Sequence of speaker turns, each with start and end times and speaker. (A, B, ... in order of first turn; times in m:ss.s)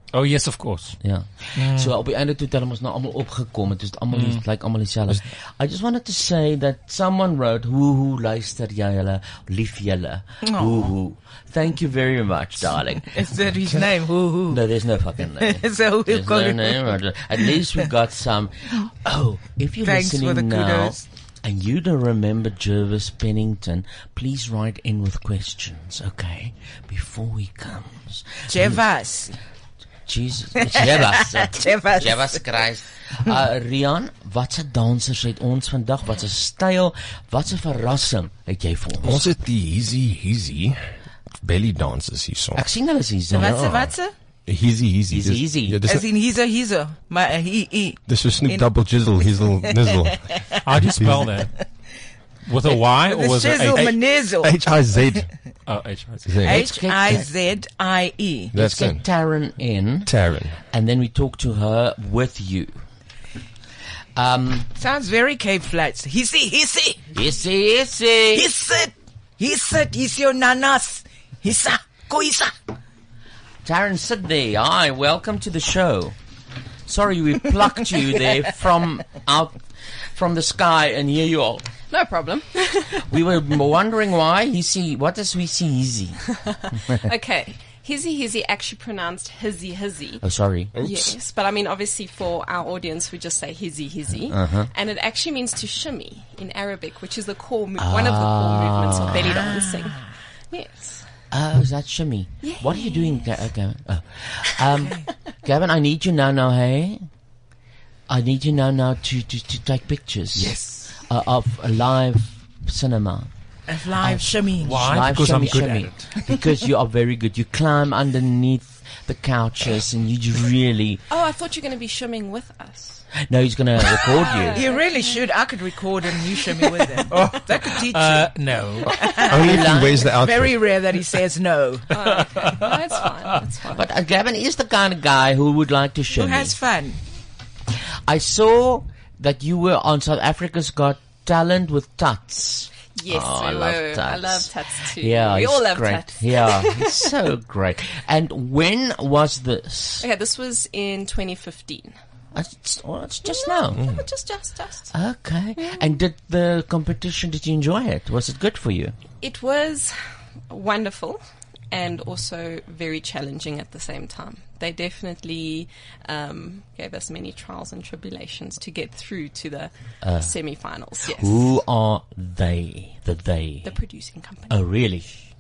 0:00.1-0:01.0 A
0:01.0-0:13.2 B
0:01.6-0:01.9 A
0:04.1-0:04.4 A
0:10.4-0:10.9 C
0:13.0-0:14.6 C
0:14.5-0:28.8 B
0:15.3-0:17.0 C
0:19.8-0:21.0 C
0:28.5-0:29.3 C
0:30.1-0:39.3 B
0:30.6-0:32.6 C
0:39.0-0:40.8 D
0:41.4-0:42.6 D
0:42.6-0:43.6 B
0:43.3-0:44.1 C
0:43.3-0:43.9 D
0:44.5-0:46.0 D
0:45.1-0:45.8 B
0:45.8-0:50.6 C
0:48.1-0:50.2 D
0:50.6-0:51.5 A
0:50.9-0:51.4 D
0:52.4-0:54.0 A
0:52.7-0:55.0 C
0:53.7-0:55.3 D
0:55.7-0:56.3 A
0:56.3-0:56.6 D
0:56.4-0:57.3 B
0:56.4-0:58.5 C
0:58.5-0:59.0 D
0:58.5-1:00.1 B
1:00.1-1:00.6 D
1:00.7-1:02.8 B
1:04.2-1:04.7 B
1:04.8-1:07.1 C
1:07.1-1:08.5 B
1:08.3-1:12.5 C
1:13.6-1:16.2 B
1:16.9-1:19.6 B
1:20.1-1:21.7 B
1:21.9-1:23.0 E
1:23.1-1:26.2 B
1:26.5-1:30.2 E
1:30.2-1:30.8 B
1:30.8-1:40.0 E
1:34.2-1:34.7 B
1:37.8-1:39.5 B
1:39.2-1:40.1 C
1:40.5-1:41.0 E
1:41.3-1:47.0 B
1:42.4-1:43.4 E
1:44.7-1:45.0 C
1:48.1-1:50.5 B
1:50.4-1:50.8 A
1:51.1-1:53.3 B
1:53.7-1:54.9 C
1:54.0-2:01.0 B
1:54.6-1:56.1 A
2:01.1-2:03.1 E
2:03.2-2:04.6 B
2:04.1-2:05.3 E
2:04.5-2:08.5 C
2:07.1-2:09.1 A
2:09.0-2:11.9 C
2:09.1-2:10.7 D
2:09.3-2:10.1 B
2:11.9-2:13.8 E
2:12.3-2:12.6 A
2:13.7-2:16.6 B
2:16.1-2:17.0 C
2:18.1-2:30.1 B
2:23.0-2:27.1 E
2:30.0-2:31.9 E
2:32.3-2:33.8 B
2:33.2-2:34.9 E
2:34.9-2:39.0 B
2:35.6-2:35.8 E
2:39.2-2:40.0 E
2:40.5-2:41.2 E
2:41.7-2:51.6 E
2:50.0-2:50.3 B
2:51.1-2:53.7 B
2:53.6-2:54.6 E
2:54.5-2:55.1 B